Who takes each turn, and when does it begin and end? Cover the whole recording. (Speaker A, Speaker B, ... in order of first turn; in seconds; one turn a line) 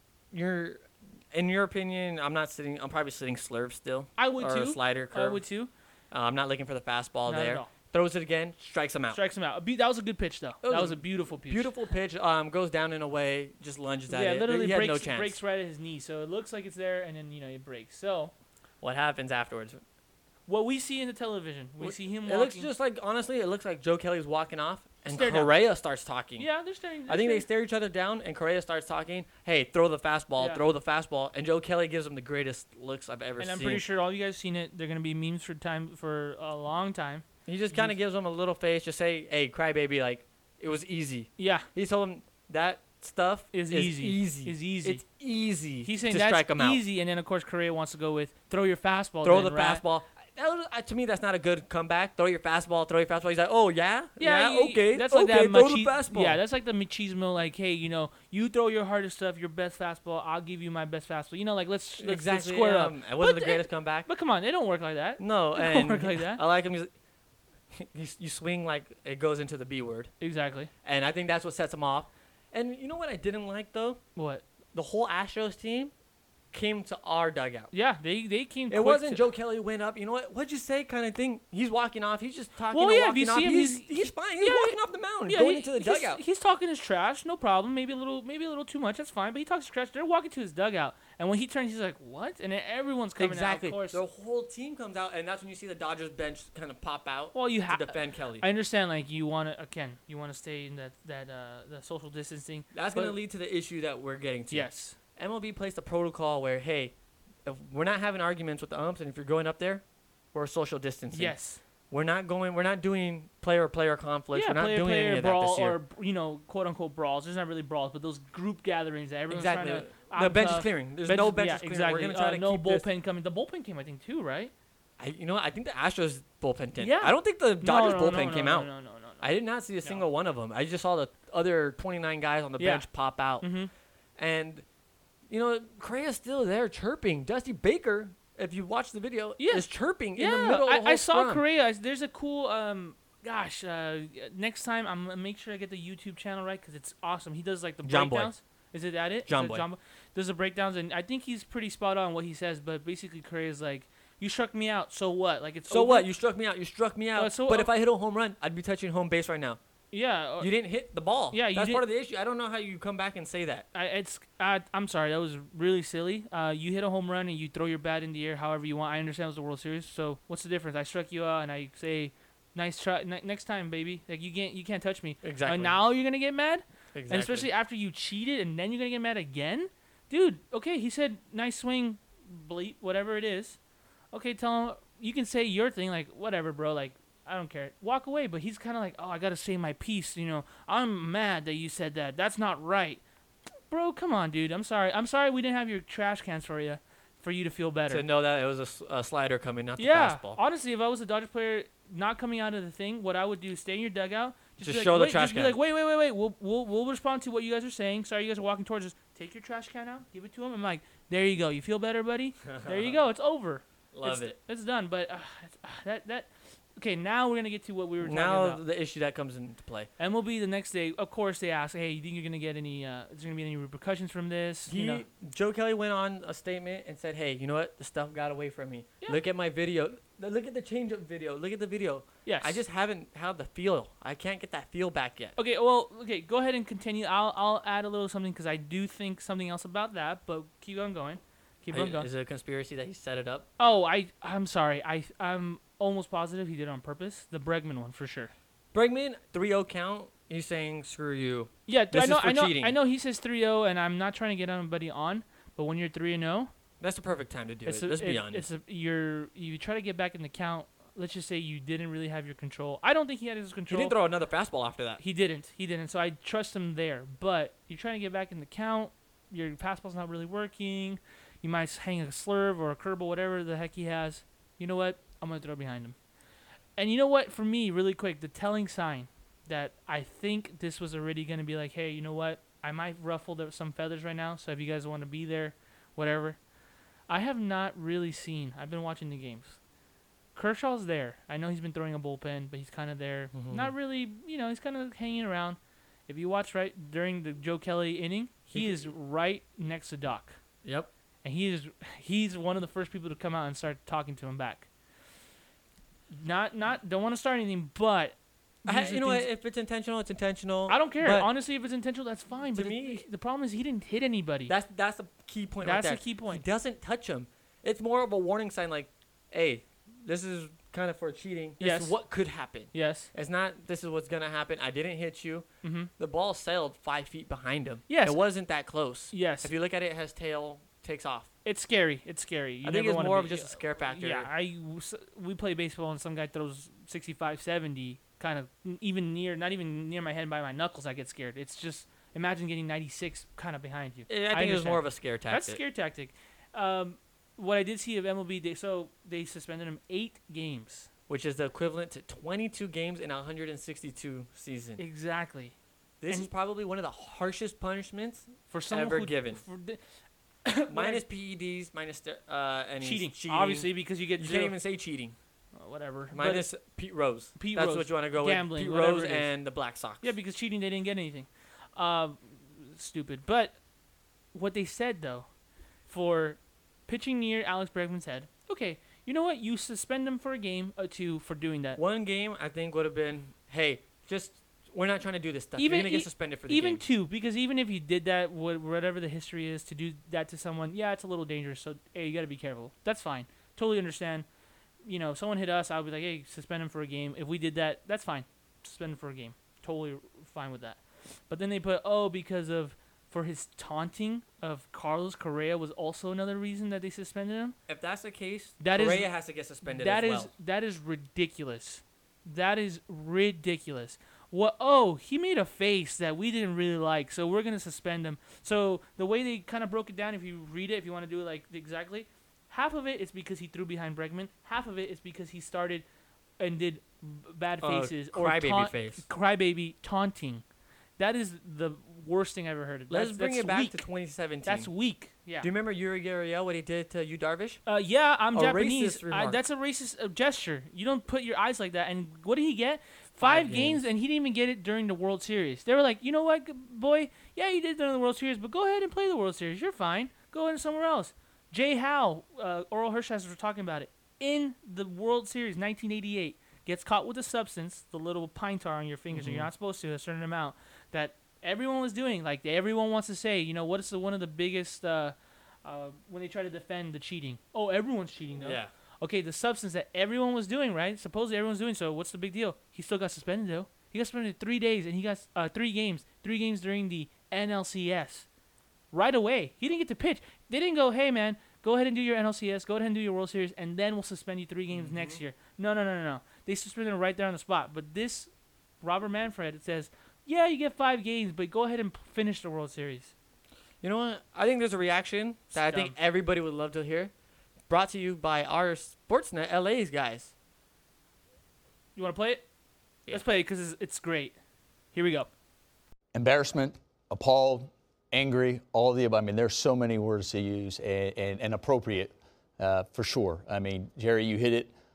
Speaker A: 0.3-5.4
Speaker B: 4.2-5.7
Speaker A: 6.1-9.2
Speaker B: 7.2-7.7
Speaker B: 9.1-11.7
Speaker A: 10.6-15.4
Speaker B: 14.1-18.3
Speaker A: 18.8-19.8
Speaker B: 20.5-22.7
Speaker A: 21.8-26.5
Speaker B: 25.1-25.5
Speaker B: 26.4-27.4
Speaker A: 27.1-33.8
Speaker B: 30.4-30.6
Speaker B: 33.4-37.9
Speaker A: 37.5-46.8
Speaker B: 41.4-41.7
Speaker B: 43.5-45.0
Speaker B: 45.8-49.8
Speaker A: 49.2-56.4
Speaker B: 54.2-66.4
Speaker A: 62.0-64.1
Speaker A: 65.2-66.9
Speaker A: 67.7-70.1
Speaker B: 70.2-70.7
Speaker A: 70.8-74.0
Speaker B: 74.2-74.4
Speaker A: 74.7-75.9
Speaker A: 76.5-77.7
Speaker B: 77.7-79.2
Speaker A: 78.7-86.2
Speaker B: 82.7-94.0
Speaker A: 93.2-98.5
Speaker B: 97.3-103.2
Speaker A: 102.7-106.9
Speaker B: 104.5-105.0
Speaker A: 107.5-111.3
Speaker B: 111.1-111.6
Speaker A: 111.9-115.8
Speaker B: 114.3-124.5
Speaker A: 119.3-122.8
Speaker A: 125.0-133.4
Speaker B: 126.8-129.3
Speaker B: 132.6-132.9
Speaker B: 133.4-133.7
Speaker A: 134.2-134.6
Speaker A: 135.3-141.4
Speaker B: 139.4-156.1
Speaker A: 147.8-148.3
Speaker A: 149.2-149.6
Speaker A: 155.7-159.6
Speaker B: 157.1-157.7
Speaker B: 159.9-160.5
Speaker A: 160.4-163.7
Speaker B: 161.3-161.8
Speaker B: 163.7-183.6
Speaker A: 175.2-175.8
Speaker A: 176.9-177.5
Speaker B: 184.1-193.0
Speaker B: 193.7-198.0
Speaker A: 197.9-200.4
Speaker B: 199.8-218.6
Speaker A: 204.6-205.6
Speaker A: 212.5-213.0
Speaker A: 213.9-214.4
Speaker A: 218.0-219.9
Speaker B: 220.0-225.0
Speaker A: 224.7-235.4
Speaker B: 232.2-232.6
Speaker B: 235.3-242.1
Speaker A: 241.7-243.5
Speaker B: 243.6-248.3
Speaker A: 248.7-252.8
Speaker B: 251.7-256.5
Speaker A: 256.8-258.4
Speaker B: 257.6-263.9
Speaker A: 263.7-265.0
Speaker B: 265.0-275.9
Speaker B: 276.8-286.4
Speaker B: 287.1-289.6
Speaker B: 290.3-300.4
Speaker A: 293.3-293.7
Speaker A: 298.5-298.9
Speaker A: 300.6-300.9
Speaker B: 301.2-304.7
Speaker B: 306.1-309.3
Speaker A: 308.6-311.3
Speaker B: 310.7-314.5
Speaker A: 312.5-313.0
Speaker A: 314.5-331.3
Speaker B: 315.6-316.4
Speaker B: 321.6-322.0
Speaker B: 322.7-323.1
Speaker B: 325.6-325.9
Speaker B: 327.9-328.2
Speaker B: 329.1-329.5
Speaker B: 331.4-350.9
Speaker A: 332.6-334.3
Speaker A: 344.1-345.6
Speaker A: 351.1-354.8
Speaker B: 354.8-355.5
Speaker A: 356.0-359.4
Speaker B: 358.5-359.8
Speaker B: 360.4-361.0
Speaker A: 360.7-365.1
Speaker B: 362.8-364.6
Speaker B: 365.6-366.5
Speaker A: 366.1-370.1
Speaker B: 367.4-369.3
Speaker B: 370.0-373.6
Speaker B: 374.3-375.3
Speaker B: 375.9-381.8
Speaker A: 381.8-386.8
Speaker B: 385.6-394.3
Speaker B: 394.8-407.5
Speaker A: 407.7-410.3
Speaker B: 408.6-409.1
Speaker B: 409.6-425.9
Speaker B: 426.4-430.4
Speaker A: 427.6-429.0
Speaker B: 431.0-433.8
Speaker A: 432.9-434.7
Speaker B: 434.4-435.5
Speaker A: 435.4-437.6
Speaker B: 437.6-478.3
Speaker A: 438.3-439.4
Speaker A: 443.2-443.8
Speaker A: 459.1-459.5
Speaker A: 468.4-468.7
Speaker B: 478.9-488.3
Speaker A: 484.7-485.2
Speaker B: 488.8-493.1
Speaker A: 493.8-497.1
Speaker B: 495.5-495.9
Speaker A: 497.7-500.3
Speaker B: 501.9-502.4
Speaker B: 503.1-504.3
Speaker B: 504.9-505.3
Speaker C: 506.1-514.7